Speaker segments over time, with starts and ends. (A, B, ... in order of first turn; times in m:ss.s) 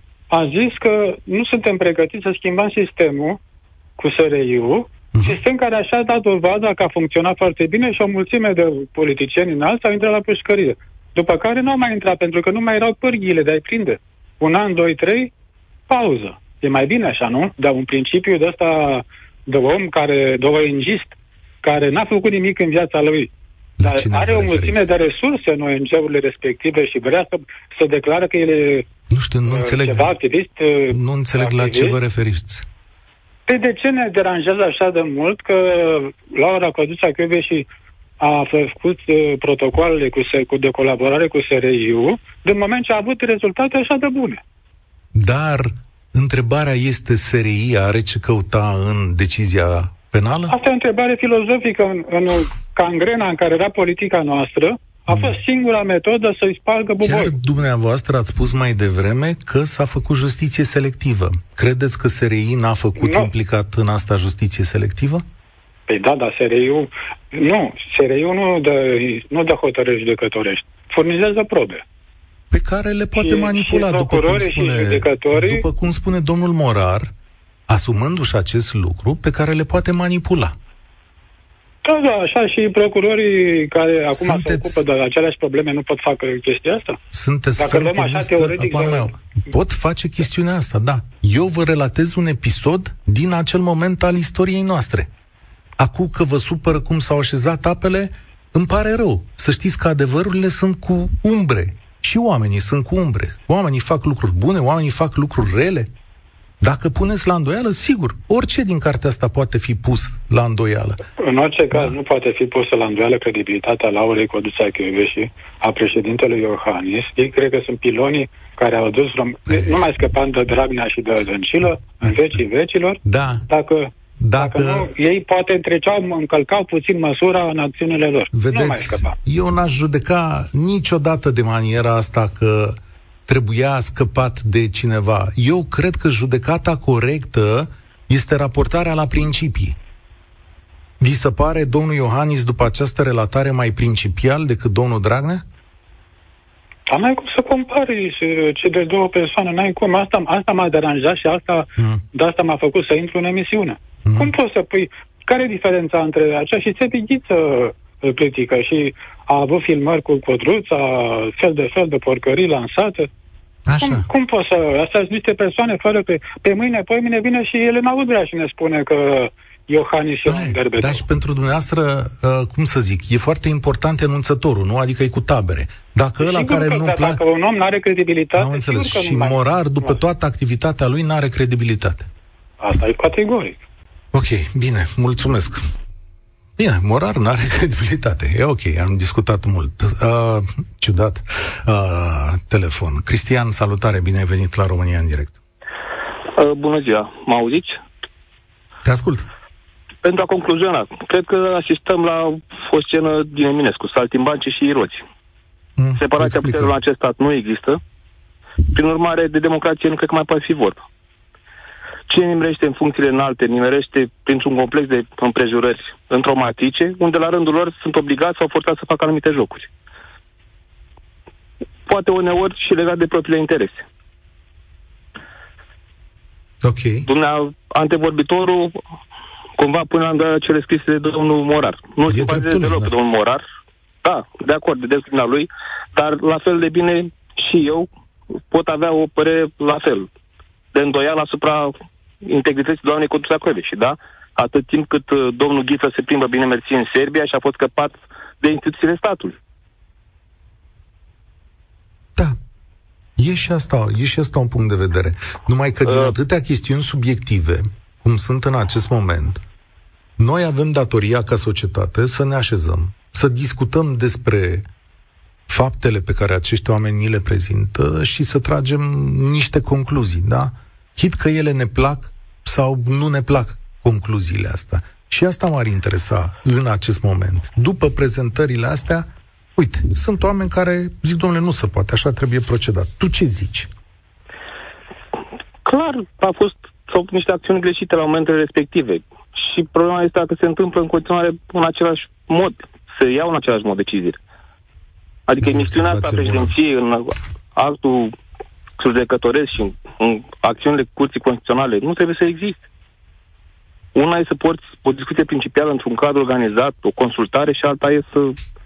0:00.3-0:03.4 A
0:04.0-0:15.3 A
0:05.1-0:05.4 B
0:15.9-0:23.3 A
0:23.8-0:24.9 B
0:23.8-0:28.9 A
0:29.1-0:30.2 B
0:29.5-0:32.0 A
0:30.9-0:32.7 B
0:33.5-0:37.7 A
0:38.2-0:44.4 A
0:45.1-0:50.6 B
0:50.5-0:57.4 A
0:55.1-0:55.4 B
0:57.0-1:05.2 B
1:03.0-1:03.3 A
1:05.9-1:11.8 A
1:12.5-1:17.1 B
1:13.2-1:15.6 A
1:17.7-1:20.6 B
1:21.8-1:27.0 A
1:24.1-1:24.8 B
1:27.1-1:35.1 B
1:27.6-1:29.1 A
1:35.8-1:45.9 B
1:46.6-1:51.0 B
1:51.2-2:09.2 A
1:59.5-1:59.9 B
2:03.0-2:03.4 B
2:04.2-2:04.9 B
2:08.3-2:19.8 B
2:21.0-2:25.4 B
2:26.9-2:43.1 A
2:31.8-2:32.0 B
2:34.0-2:34.3 B
2:43.7-2:44.1 B
2:43.8-2:51.0 A
2:50.3-2:57.2 B
2:56.2-3:00.0 A
2:58.3-3:02.1 B
3:02.6-3:03.6 A
3:04.1-3:05.6 B
3:06.6-3:15.4 B
3:16.4-3:17.8 C
3:18.8-3:19.3 B
3:20.0-3:25.0 C
3:25.8-3:26.7 B
3:26.0-3:27.8 C
3:28.7-3:30.8 C
3:32.1-3:39.7 C
3:41.9-3:43.8 C
3:46.6-3:47.1 B
3:47.1-3:48.8 C
3:49.6-3:53.4 C
3:52.1-3:52.9 B
3:54.0-3:57.9 C
3:58.5-4:00.1 C
4:00.7-4:09.4 C
4:13.2-4:19.4 B
4:15.9-4:16.2 C
4:20.2-4:24.7 B
4:25.5-4:43.7 B
4:45.6-4:54.2 C
4:55.3-4:58.2 C
4:55.4-4:56.5 B
4:58.8-5:02.6 C
5:04.0-5:08.4 C